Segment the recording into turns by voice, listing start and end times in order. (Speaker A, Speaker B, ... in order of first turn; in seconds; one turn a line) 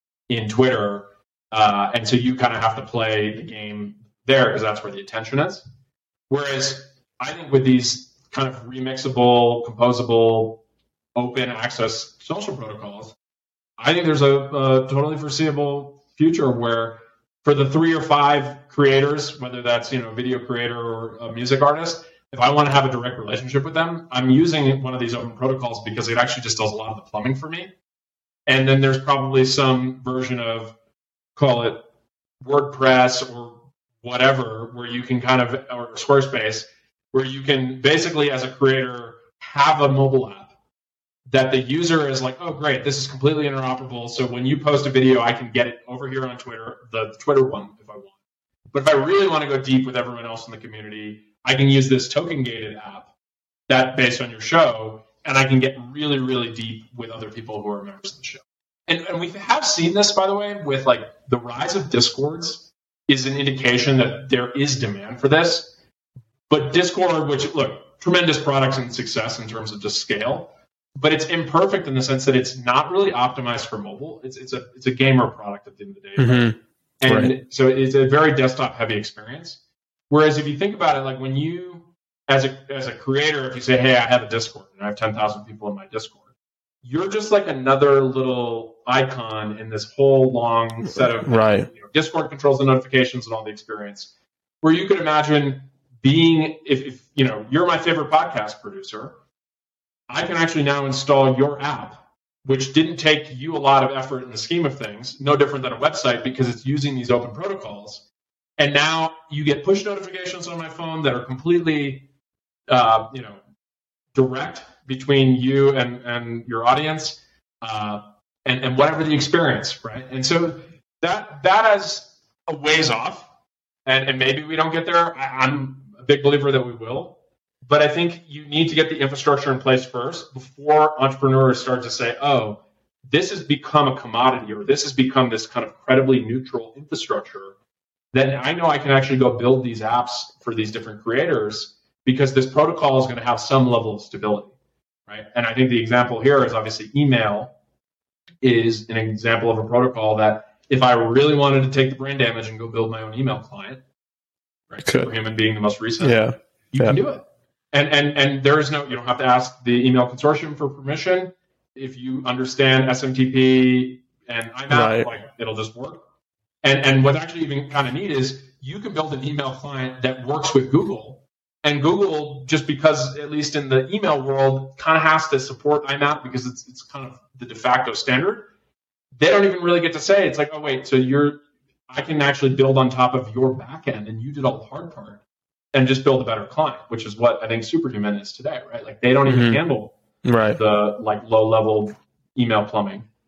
Speaker A: 0.3-5.7
Speaker A: 6.3-10.6
Speaker A: 11.1-13.2
Speaker A: 13.8-27.7
Speaker A: 28.5-30.8
Speaker A: 31.3-31.9
Speaker A: 32.4-40.5
Speaker A: 41.3-48.1
Speaker A: 48.7-53.1
Speaker A: 53.7-65.7
Speaker A: 66.5-86.3
Speaker B: 76.2-77.3
Speaker A: 86.8-99.2
Speaker B: 91.2-91.7
Speaker A: 100.1-108.0
Speaker A: 108.6-112.1
Speaker A: 112.7-113.4
Speaker A: 114.1-123.3
Speaker A: 123.8-137.5
Speaker A: 138.1-144.5
Speaker A: 145.1-147.5
Speaker A: 148.4-153.8
Speaker A: 154.7-166.0
Speaker B: 154.8-155.1
Speaker B: 156.0-157.0
Speaker B: 164.7-165.1
Speaker A: 166.6-178.5
Speaker A: 179.2-185.2
Speaker A: 185.7-189.9
Speaker B: 189.3-189.6
Speaker B: 190.2-190.6
Speaker A: 190.6-193.1